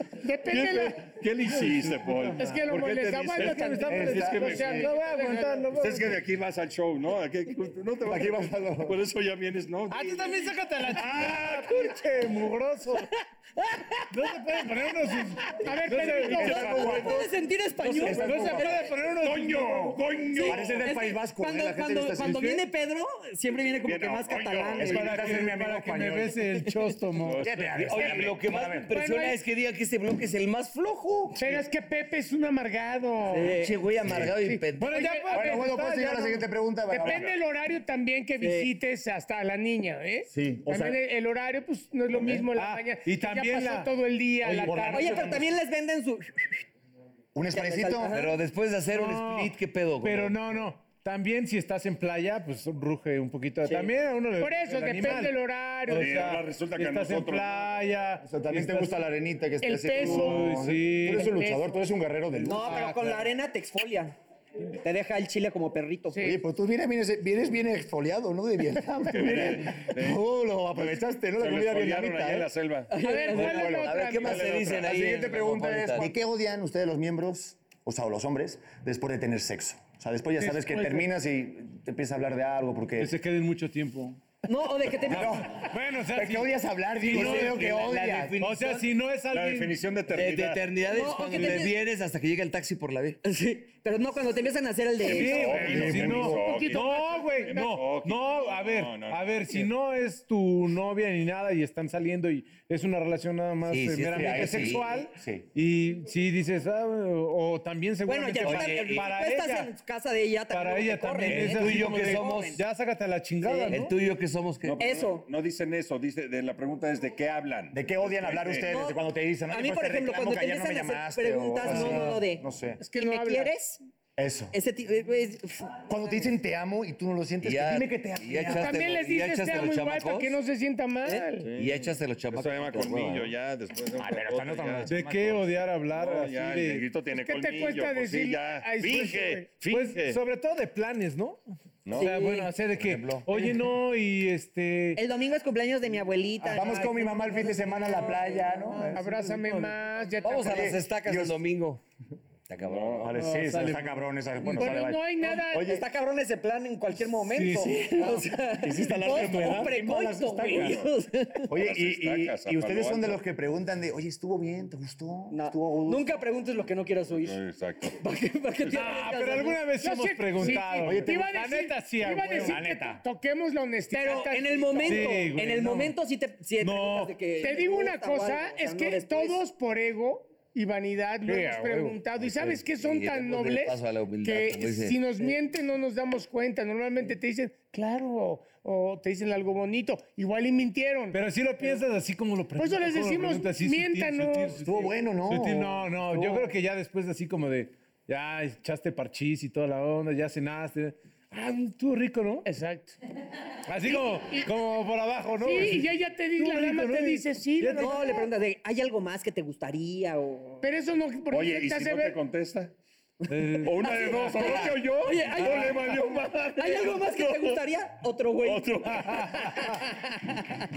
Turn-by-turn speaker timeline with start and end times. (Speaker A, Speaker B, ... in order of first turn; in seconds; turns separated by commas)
Speaker A: 0.2-1.1, Speaker B: 0.5-4.9, Speaker C: 1.4-2.6, Speaker A: 2.4-5.7, Speaker C: 3.4-6.1, Speaker D: 3.9-4.8, Speaker B: 5.7-10.4, Speaker D: 8.0-9.0, Speaker C: 9.9-13.1, Speaker B: 11.0-11.9, Speaker C: 14.1-16.6, Speaker A: 15.6-16.7, Speaker B: 16.3-17.3, Speaker D: 16.3-17.3, Speaker E: 16.6-18.9, Speaker C: 17.8-20.8, Speaker D: 17.9-18.9, Speaker B: 19.2-20.8, Speaker E: 20.3-25.1, Speaker D: 20.4-22.5, Speaker C: 22.2-22.6, Speaker B: 23.8-25.3, Speaker D: 24.8-26.4, Speaker C: 24.8-27.5, Speaker B: 27.2-28.2, Speaker D: 27.4-28.9, Speaker F: 27.7-31.4, Speaker A: 28.9-29.4, Speaker A: 31.4-33.6, Speaker E: 33.3-33.8, Speaker F: 33.5-35.0, Speaker A: 34.3-35.7, Speaker C: 34.8-36.5, Speaker D: 35.3-37.3, Speaker A: 36.9-45.4, Speaker B: 37.0-37.3, Speaker E: 38.4-38.7, Speaker D: 40.3-41.0, Speaker B: 42.1-42.5, Speaker C: 42.6-44.8, Speaker D: 44.6-45.5, Speaker E: 44.9-46.6, Speaker D: 47.3-48.2, Speaker E: 47.5-48.4, Speaker F: 48.1-50.4, Speaker C: 48.9-59.1, Speaker A: 54.4-56.2, Speaker B: 55.9-57.6, Speaker D: 58.2-62.6, Speaker A: 59.6-61.8, Speaker C: 60.0-61.3, Speaker E: 62.4-64.2, Speaker C: 62.5-63.3, Speaker E: 64.7-66.2, Speaker A: 66.1-66.4, Speaker D: 66.2-72.5, Speaker B: 69.0-70.2, Speaker B: 70.8-73.0, Speaker E: 72.9-73.7, Speaker A: 73.0-74.4, Speaker F: 73.3-76.2, Speaker D: 73.5-73.9, Speaker B: 74.2-75.0, Speaker D: 74.8-83.1, Speaker A: 80.4-81.1, Speaker C: 83.0-84.2, Speaker E: 84.5-85.5, Speaker D: 85.0-88.4, Speaker C: 85.6-87.7, Speaker F: 87.0-88.9, Speaker C: 88.4-89.8, Speaker B: 89.3-90.7, Speaker F: 90.1-93.2, Speaker E: 90.8-91.8, Speaker E: 93.2-95.6, Speaker B: 95.0-99.7, Speaker C: 95.1-109.7, Speaker D: 95.3-96.6, Speaker A: 95.7-97.8, Speaker F: 103.7-105.0, Speaker D: 104.1-105.5, Speaker E: 108.1-112.6, Speaker F: 108.4-109.1, Speaker C: 110.5-114.0, Speaker F: 111.3-112.6, Speaker F: 113.4-114.9, Speaker B: 114.6-118.7, Speaker E: 114.8-115.3, Speaker D: 117.7-122.8, Speaker E: 118.7-123.8, Speaker C: 121.7-122.2, Speaker A: 122.8-123.5, Speaker D: 124.2-124.5, Speaker E: 124.5-126.0, Speaker D: 125.9-128.8, Speaker F: 127.4-130.4, Speaker A: 128.5-131.5, Speaker B: 131.4-140.2, Speaker F: 131.5-133.3, Speaker D: 134.0-135.5, Speaker C: 134.9-136.9, Speaker A: 137.1-139.6, Speaker C: 139.6-145.0, Speaker B: 141.8-142.1, Speaker D: 142.7-143.5, Speaker E: 145.0-146.8, Speaker C: 146.4-147.8, Speaker D: 146.4-149.0, Speaker C: 148.4-149.8, Speaker A: 148.9-150.8, Speaker F: 150.2-151.8, Speaker D: 150.2-151.5, Speaker F: 152.5-153.3, Speaker B: 152.7-153.1, Speaker D: 153.0-155.8, Speaker C: 153.2-154.1, Speaker A: 154.4-155.8, Speaker E: 155.2-161.6, Speaker C: 157.3-158.3, Speaker D: 158.6-160.8, Speaker B: 160.5-160.9, Speaker D: 161.5-166.1, Speaker B: 161.5-163.2, Speaker E: 165.3-167.4, Speaker B: 167.1-168.0, Speaker E: 168.0-169.7, Speaker B: 168.6-169.0, Speaker C: 168.7-172.6, Speaker A: 169.8-175.3, Speaker D: 170.8-171.3, Speaker D: 172.4-173.0, Speaker E: 173.9-179.4, Speaker C: 174.9-176.0, Speaker C: 176.6-177.2, Speaker A: 177.4-191.2, Speaker C: 181.3-182.0, Speaker F: 182.4-185.1, Speaker C: 191.1-202.5, Speaker A: 192.6-194.6, Speaker D: 194.6-196.4, Speaker A: 202.4-203.0, Speaker C: 203.7-208.0, Speaker A: 203.8-204.5, Speaker A: 205.4-208.3, Speaker E: 207.8-210.6, Speaker A: 210.6-212.2, Speaker B: 211.3-212.7, Speaker E: 213.2-218.8, Speaker C: 213.3-214.6, Speaker B: 213.6-217.6, Speaker B: 218.4-219.8, Speaker C: 218.9-219.7